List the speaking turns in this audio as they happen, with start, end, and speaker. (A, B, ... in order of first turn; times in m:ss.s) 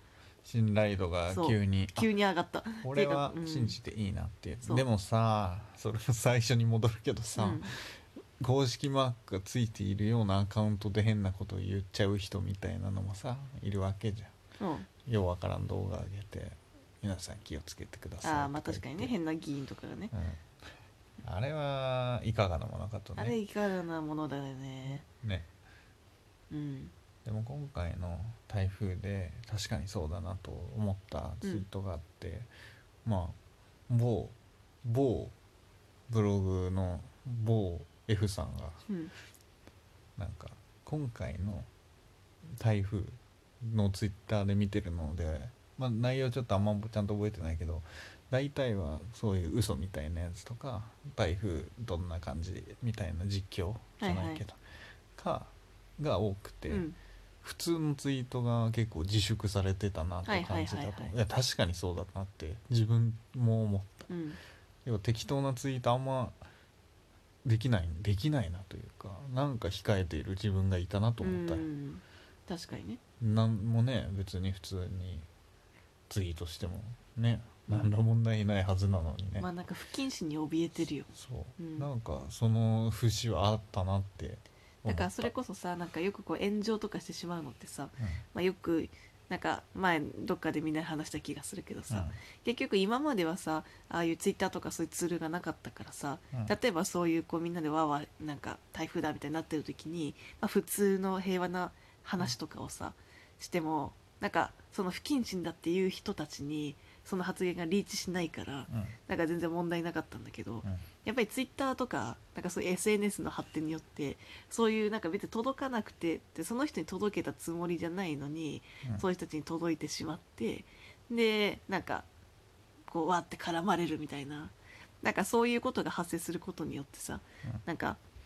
0:00.4-0:02.1 A
0:01.3-0:03.8 B
0:02.8-0:14.3 A
0:07.4-0:07.7 B
0:14.6-0:14.9 B
0:15.0-0:19.2 A
0:18.2-0:20.1 B
0:20.1-0:20.4 A
0:21.2-0:23.4 A
0:23.2-0:25.0 B
0:25.2-0:25.5 A
0:26.5-0:26.9 B
0:27.2-0:32.5 A
0:33.0-0:33.4 A
0:33.9-0:35.3 A
0:36.1-0:38.8 A
0:40.2-0:41.7 A
0:42.6-0:54.6 A
0:54.0-0:54.4 B
0:55.2-0:56.9 A
0:56.7-0:57.0 B
0:57.4-1:04.1 A
1:00.2-1:01.1 B
1:04.1-1:04.4 B
1:04.8-1:06.4 A
1:07.4-1:11.6 A
1:11.2-1:13.0 B
1:13.2-1:15.3 A
1:16.1-1:19.5 A
1:17.7-1:17.9 B
1:19.4-1:21.9 B
1:21.1-1:25.3 A
1:24.9-2:02.1 B
1:31.9-1:32.2 A
1:48.7-1:48.9 A
2:02.9-2:08.0 B